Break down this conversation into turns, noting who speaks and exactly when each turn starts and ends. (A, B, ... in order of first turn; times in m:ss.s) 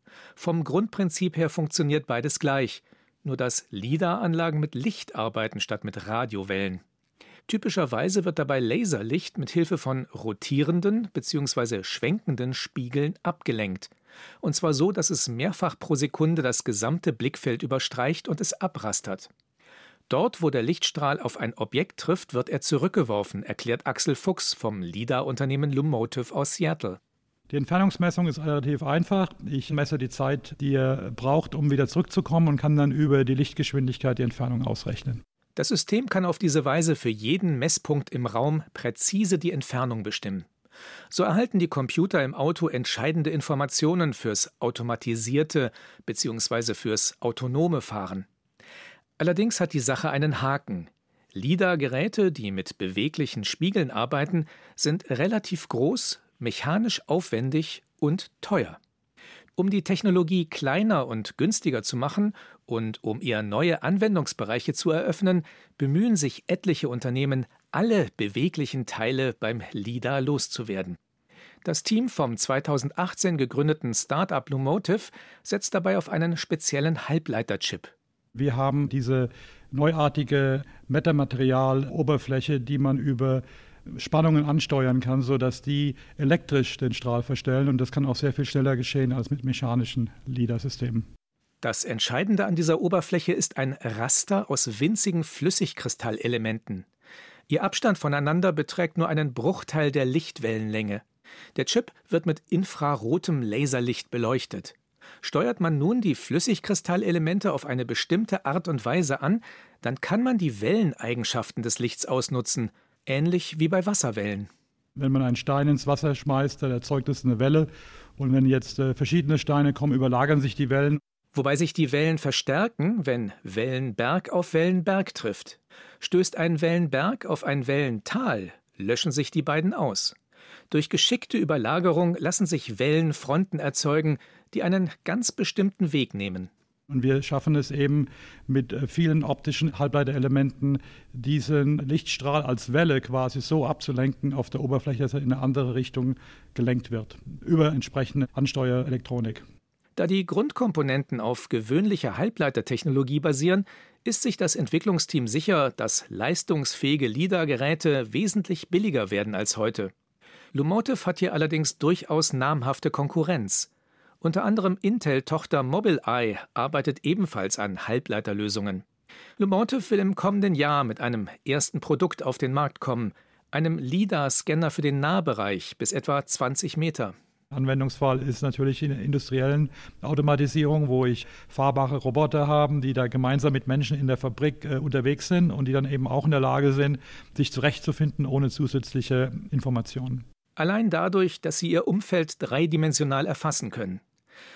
0:00.4-0:06.8 A
0:07.5-0:13.9 A
0:14.4-0:19.3 A
0:20.1-0:27.0 A
0:27.5-0:35.2 B
0:35.6-0:40.5 A
0:41.1-0:48.2 A
0:49.2-0:58.8 A
0:59.6-1:11.0 A
1:11.6-1:17.9 A
1:18.3-1:31.0 B
1:31.6-1:36.8 A
1:37.5-1:41.0 A
1:41.6-1:54.5 A
1:55.0-2:01.0 B
2:01.3-2:10.1 A
2:10.7-2:16.5 A
2:16.9-2:29.4 B
2:30.0-2:39.9 A
2:40.5-2:43.7 A
2:44.2-2:48.8 A
2:49.4-2:57.1 A
2:57.5-3:10.2 B
3:10.6-3:14.0 A